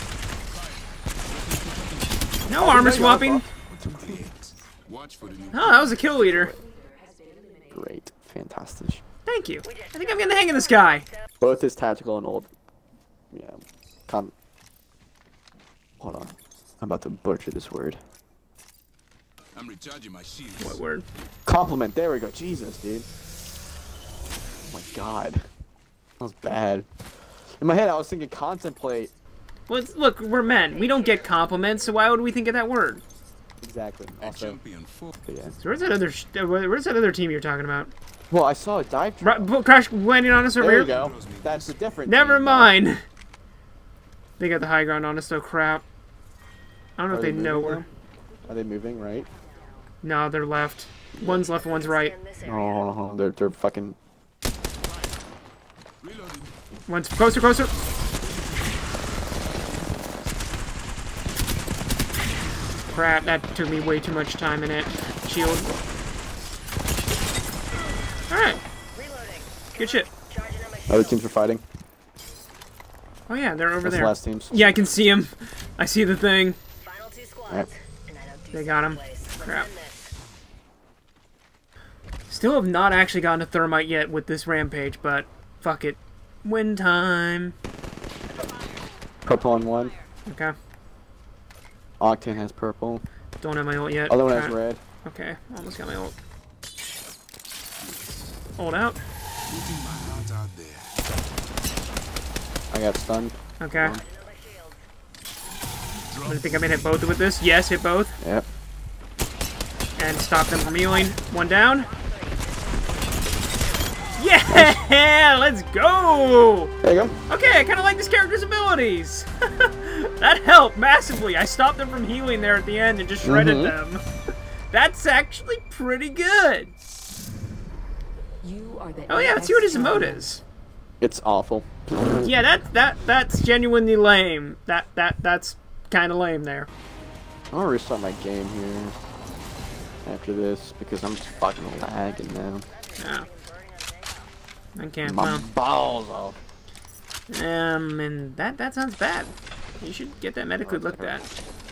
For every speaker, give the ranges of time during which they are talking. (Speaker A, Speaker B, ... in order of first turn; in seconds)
Speaker A: 0.5-2.4, 3.7-6.1, 19.5-20.8, 34.2-35.1, 40.8-41.8, 54.9-55.1, 56.0-56.5, 57.7-58.9, 59.4-60.1, 62.4-63.5, 97.8-98.3, 99.5-100.9, 106.1-107.0
Speaker B: 2.5-3.5, 5.5-6.6, 9.3-11.1, 20.6-21.1, 29.7-33.0, 35.6-37.9, 39.2-40.9, 42.1-43.0, 44.4-45.8, 47.0-47.9, 50.0-52.1, 56.9-57.7, 62.9-65.7, 68.3-68.6, 69.8-70.1, 73.3-76.6, 78.5-79.7, 82.3-87.5, 90.3-90.5, 93.4-96.2, 98.6-99.0, 103.6-104.0, 106.3-108.2, 110.0-111.9, 114.2-116.7, 117.3-124.0, 124.7-126.7, 129.1-130.4, 132.2-136.7, 143.0-143.3, 144.8-145.5, 147.3-151.2
Speaker C: 2.6-4.2, 6.0-6.6, 7.7-9.0, 11.4-12.5, 13.3-14.3, 16.0-18.0, 21.5-23.1, 24.7-25.4, 26.2-26.9, 27.6-29.1, 33.6-34.6, 35.3-35.6, 38.3-39.5, 40.6-42.8, 47.1-47.9, 48.5-49.3, 51.1-51.5, 52.4-54.0, 70.9-71.6, 73.8-74.7, 89.3-90.0, 92.0-93.0, 94.1-94.8, 102.7-104.0, 108.2-108.5, 116.8-117.2, 123.2-123.8, 131.0-132.3, 137.5-139.0, 140.1-142.7, 145.0-146.4, 150.6-151.3
Speaker D: 6.8-7.8, 128.4-130.2
Speaker E: 9.7-11.0, 51.6-52.8, 67.7-68.1, 68.9-71.1, 76.8-80.1, 88.3-90.0, 104.0-104.8, 111.8-114.2, 142.7-144.3